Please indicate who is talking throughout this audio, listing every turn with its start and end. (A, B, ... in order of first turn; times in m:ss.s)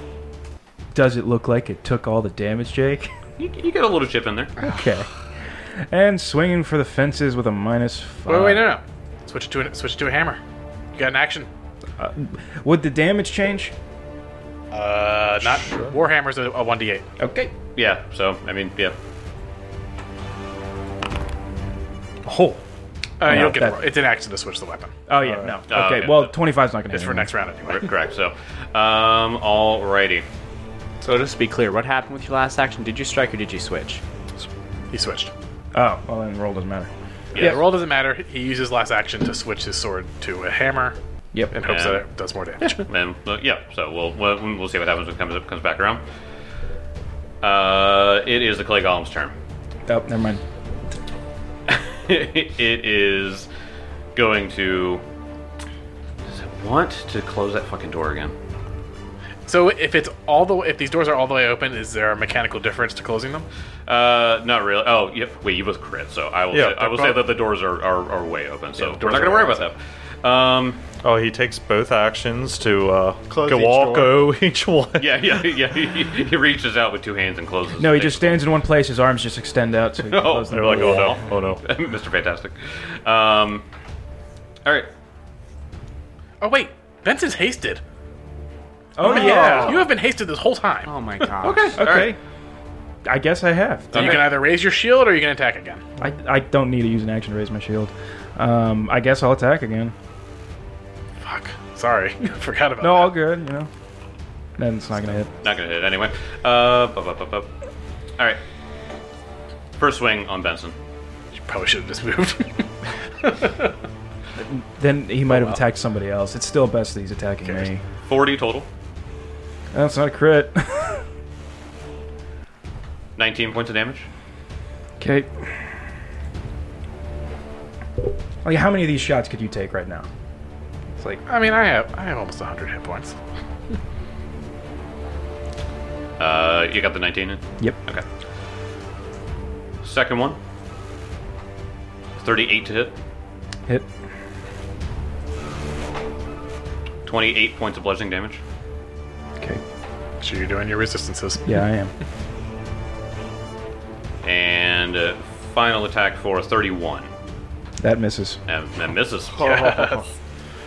0:00.9-0:03.1 A
0:03.4-0:04.6 B
0:04.6-0:05.1 A
0:05.9-0:08.7 A
0:08.3-0:10.4 C
0:11.0-0:11.5 C
0:12.0-0:13.7 A
0:14.7-0:17.1 C
0:15.4-0:16.0 D
0:17.2-0:17.5 A
0:17.8-0:19.0 B
0:22.3-0:22.6 A
0:23.2-0:24.9 C
0:23.2-0:23.9 A
0:25.1-0:27.3 A
0:25.2-0:25.6 D
0:25.7-0:26.3 B
0:26.9-0:27.9 C
0:27.6-0:30.3 B
0:31.0-0:34.0 E
0:34.9-0:35.3 C
0:35.7-0:37.6 A
0:37.3-0:37.6 B
0:37.4-0:41.0 C
0:41.5-0:42.9 C
0:41.7-0:42.0 B
0:42.6-0:46.0 B
0:47.4-0:49.3 B
0:49.9-0:50.4 A
0:51.7-0:53.5 B
0:54.2-0:55.0 B
0:56.3-0:58.3 B
0:59.5-1:03.5 C
1:03.9-1:10.8 B
1:06.5-1:07.0 D
1:06.9-1:07.2 C
1:08.8-1:09.7 C
1:11.0-1:15.4 D
1:13.3-1:14.3 E
1:15.0-1:18.4 B
1:17.8-1:21.2 A
1:20.0-1:23.6 B
1:20.5-1:21.6 D
1:24.6-1:24.9 B
1:26.4-1:27.8 C
1:29.0-1:29.9 A
1:29.0-1:30.9 C
1:29.0-1:29.9 E
1:30.8-1:31.8 E
1:31.4-1:32.2 B
1:31.8-1:32.2 A
1:33.0-1:34.3 A
1:33.9-1:34.4 B
1:33.9-1:35.8 C
1:36.0-1:39.9 A
1:41.2-1:43.2 C
1:42.8-1:43.7 A
1:44.6-1:45.3 A
1:45.4-1:47.5 B
1:49.8-1:50.8 B
1:51.4-1:53.7 C
1:54.4-1:57.8 A
1:55.3-1:55.6 C
1:58.1-1:58.7 B
1:59.7-2:01.0 A
2:03.2-2:04.1 B
2:05.0-2:05.4 A
2:08.4-2:10.1 A
2:11.0-2:11.2 A
2:11.3-2:13.2 C
2:16.2-2:18.0 B
2:19.8-2:20.4 B
2:22.2-2:23.0 B
2:27.0-2:28.4 B
2:30.2-2:31.6 C
2:31.4-2:31.9 A
2:34.2-2:37.1 B
2:37.8-2:38.4 A
2:38.5-2:39.8 B
2:39.4-2:40.0 C